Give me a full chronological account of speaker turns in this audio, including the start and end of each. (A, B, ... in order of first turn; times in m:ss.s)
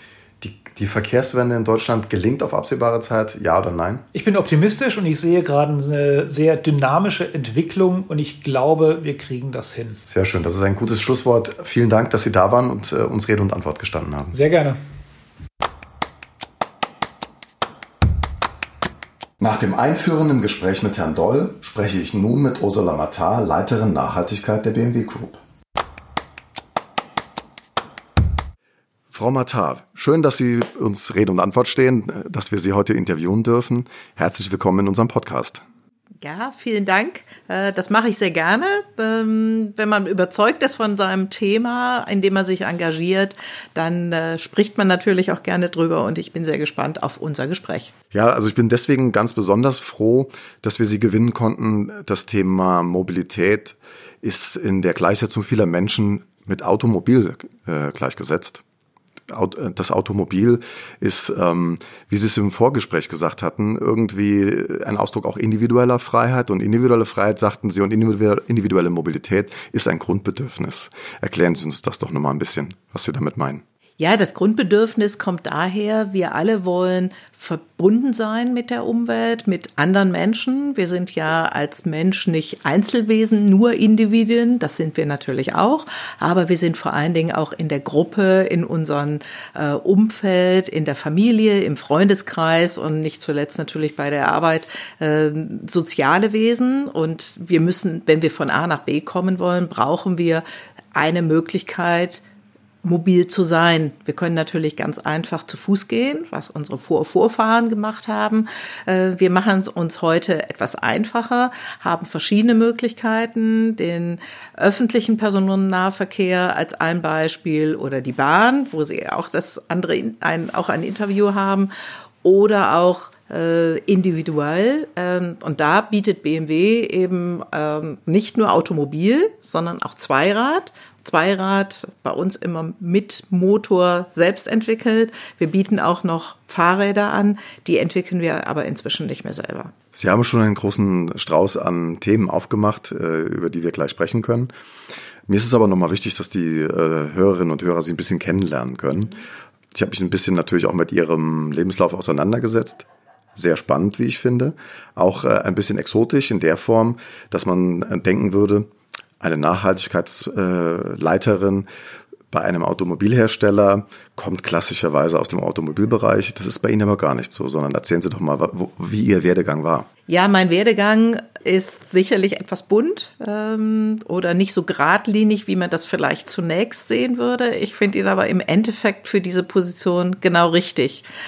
0:00.4-0:04.0 A
0:04.1-0:10.0 B
0:10.1-0:14.3 A
0:14.3-0:14.8 B
0:19.4-0:25.4 A
0:29.1-0:35.6 A
0:36.2-0:47.9 C
0:48.1-0:58.6 A
0:59.3-1:13.6 A
1:14.0-1:42.2 C
1:42.8-2:01.7 C
2:02.2-2:19.7 C
2:19.9-2:24.5 A
2:25.3-2:29.2 A
2:29.7-2:41.7 A
2:42.3-2:49.9 A
2:50.1-3:01.0 C